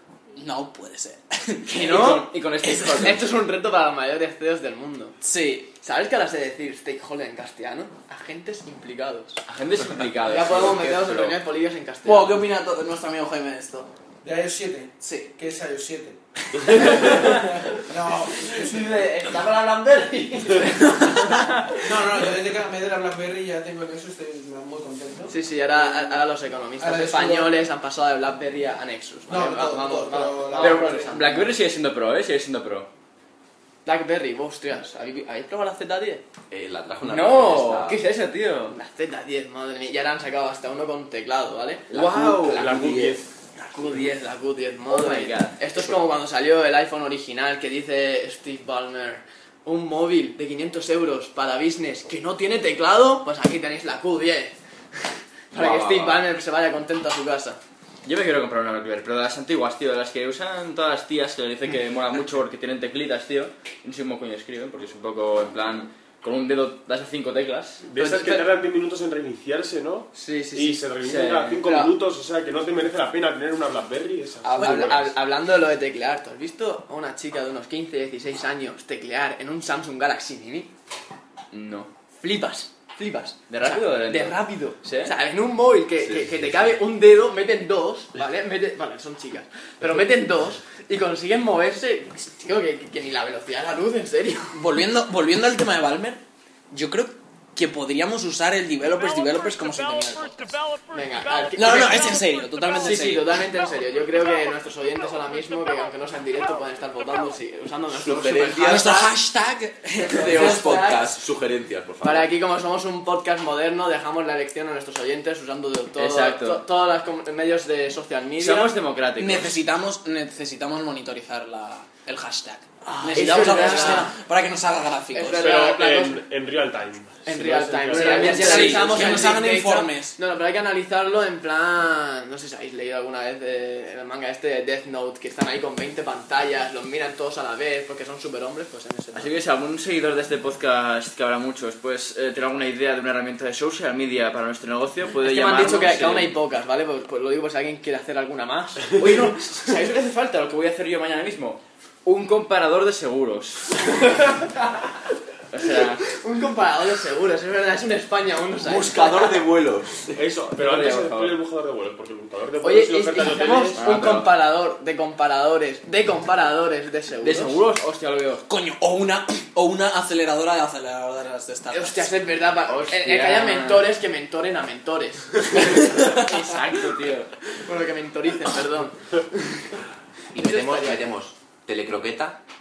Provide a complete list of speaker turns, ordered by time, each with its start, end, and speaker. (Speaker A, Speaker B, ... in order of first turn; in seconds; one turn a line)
Speaker A: 0.4-1.7
Speaker B: 1.7-5.2
Speaker C: 1.7-3.2
Speaker A: 5.2-5.7
Speaker B: 5.8-9.4
Speaker C: 9.5-11.4
Speaker B: 10.2-12.4
Speaker A: 12.0-13.9
Speaker D: 14.2-16.2
Speaker A: 15.0-15.3
Speaker C: 16.7-17.4
Speaker D: 16.9-19.1
Speaker C: 18.6-21.8
Speaker B: 19.0-19.3
Speaker B: 19.9-20.7
Speaker D: 21.8-26.2
Speaker B: 25.3-31.4
Speaker D: 26.8-27.6
Speaker D: 29.3-31.5
Speaker C: 30.5-32.9
Speaker B: 33.8-36.2
Speaker E: 36.5-38.0
Speaker C: 37.0-38.8
Speaker B: 38.7-41.9
Speaker C: 41.9-42.8
Speaker E: 42.0-43.1
Speaker F: 42.0-43.3
Speaker B: 43.6-57.6
Speaker C: 44.9-45.9
Speaker C: 55.5-56.2
Speaker C: 58.0-67.8
Speaker F: 67.9-75.1
Speaker B: 68.0-68.4
Speaker B: 70.2-70.8
Speaker C: 71.0-71.6
Speaker B: 71.6-71.9
Speaker B: 74.5-80.7
Speaker C: 81.5-81.9
Speaker B: 82.2-94.6
Speaker C: 83.5-85.1
Speaker A: 94.5-100.6
Speaker B: 100.9-102.2
Speaker A: 101.5-103.2
Speaker B: 102.8-109.1
Speaker E: 107.9-109.1
Speaker A: 108.6-110.6
Speaker E: 110.0-112.3
Speaker B: 110.1-111.1
Speaker B: 112.0-118.7
Speaker C: 116.0-116.6
Speaker C: 118.4-119.5
Speaker A: 119.2-125.6
Speaker B: 122.8-124.1
Speaker C: 123.0-123.9
Speaker B: 125.1-126.2
Speaker F: 125.3-129.0
Speaker B: 127.2-139.3
Speaker C: 127.9-129.3
Speaker A: 128.2-130.2
Speaker C: 139.1-146.3
Speaker B: 145.2-149.3
Speaker C: 149.0-154.2
Speaker C: 155.5-156.0
Speaker B: 156.1-159.4
Speaker E: 158.6-160.2
Speaker F: 160.1-163.8
Speaker C: 160.5-161.4
Speaker B: 162.6-167.6
Speaker C: 163.8-164.3
Speaker C: 167.2-168.4
Speaker A: 168.5-172.1
Speaker B: 171.7-176.4
Speaker C: 172.7-173.9
Speaker C: 175.9-177.3
Speaker B: 177.6-179.4
Speaker E: 180.3-182.4
Speaker B: 180.3-181.1